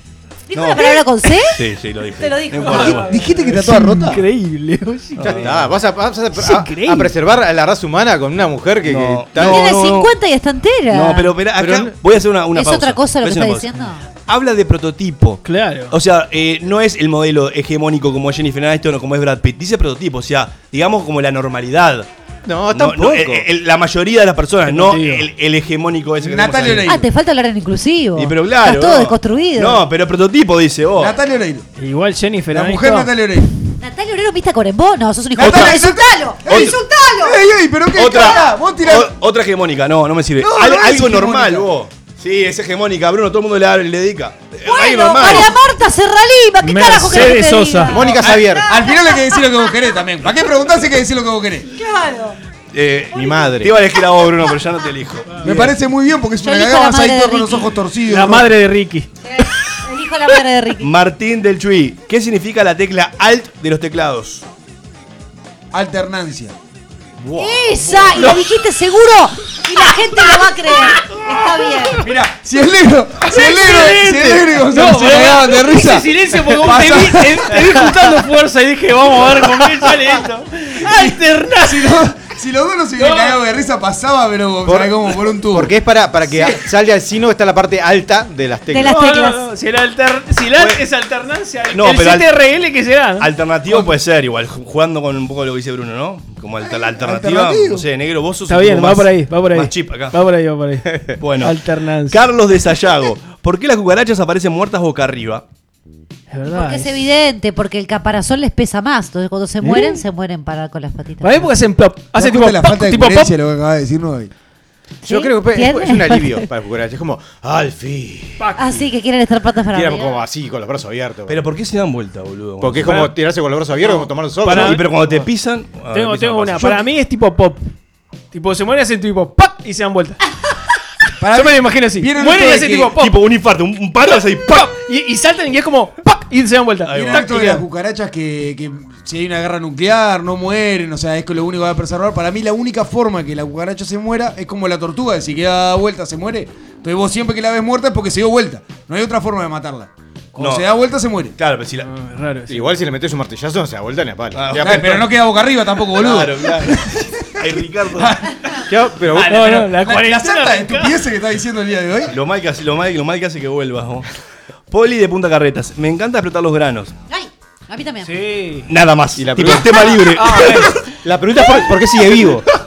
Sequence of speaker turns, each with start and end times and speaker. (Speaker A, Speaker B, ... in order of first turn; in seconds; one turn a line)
Speaker A: 0.5-1.6
Speaker B: 0.5-3.1
Speaker A: 2.2-3.0
Speaker C: 2.6-5.5
Speaker D: 3.0-4.2
Speaker B: 5.2-5.7
Speaker E: 5.2-9.7
Speaker C: 6.3-7.1
Speaker B: 8.8-10.1
Speaker A: 9.3-11.3
Speaker B: 10.9-13.7
Speaker E: 11.6-11.9
Speaker A: 12.5-14.0
Speaker B: 14.2-22.1
Speaker C: 15.4-15.9
Speaker E: 22.4-23.4
Speaker B: 22.7-27.0
Speaker C: 24.7-25.3
Speaker D: 26.2-27.1
Speaker A: 26.8-29.8
Speaker B: 28.1-31.1
Speaker D: 31.0-31.6
Speaker C: 31.8-33.1
Speaker D: 32.5-33.5
Speaker A: 33.8-37.4
Speaker D: 35.4-39.1
Speaker B: 35.4-35.8
Speaker B: 36.5-36.8
Speaker B: 37.9-45.6
Speaker D: 40.4-41.7
Speaker A: 44.6-49.8
Speaker C: 46.6-48.0
Speaker E: 47.9-48.6
Speaker D: 48.2-51.7
Speaker A: 51.7-52.4
Speaker B: 52.7-55.4
Speaker E: 53.1-53.7
Speaker C: 55.4-55.7
Speaker D: 55.4-58.5
Speaker A: 56.4-57.7
Speaker C: 58.1-59.1
Speaker A: 59.2-60.9
Speaker B: 60.8-64.4
Speaker D: 65.7-66.5
Speaker B: 67.2-68.2
Speaker A: 67.3-72.1
Speaker D: 72.0-77.6
Speaker C: 73.3-82.0
Speaker D: 80.8-85.7
Speaker C: 83.0-83.4
Speaker E: 84.6-89.0
Speaker A: 88.7-89.4
Speaker C: 88.9-93.3
Speaker B: 91.7-92.3
Speaker B: 93.2-100.1
Speaker D: 97.0-97.8
Speaker C: 98.5-102.2
Speaker B: 101.2-101.6
Speaker B: 102.1-105.4
Speaker C: 106.3-107.0
Speaker A: 106.5-111.5
Speaker D: 109.7-110.0
Speaker C: 111.2-113.3
Speaker D: 112.1-114.3
Speaker A: 115.0-116.4
Speaker E: 115.0-118.4
Speaker C: 118.4-118.8
Speaker A: 118.6-120.2
Speaker E: 119.7-121.4
Speaker B: 121.3-123.1
Speaker E: 122.6-124.8
Speaker C: 123.8-125.2
Speaker B: 124.5-126.8
Speaker C: 125.9-127.7
Speaker C: 128.3-130.2
Speaker D: 131.2-132.9
Speaker C: 131.3-133.1
Speaker B: 133.0-134.7
Speaker C: 134.5-137.6
Speaker B: 136.9-137.3
Speaker D: 136.9-151.3
Speaker B: 150.4-150.7
Speaker B: 151.3-151.9
Speaker C: 151.8-152.8
Speaker E: 152.5-154.9
Speaker B: 154.3-155.1
Speaker D: 154.5-157.4
Speaker B: 155.9-158.3
Speaker D: 157.9-158.3
Speaker E: 158.7-159.7
Speaker C: 159.2-160.9
Speaker D: 159.8-162.1
Speaker B: 162.1-164.1
Speaker B: 164.7-166.9
Speaker A: 167.1-168.1
Speaker C: 168.0-168.7
Speaker B: 168.7-170.8
Speaker E: 169.2-170.3
Speaker C: 170.1-170.8
Speaker E: 171.0-172.4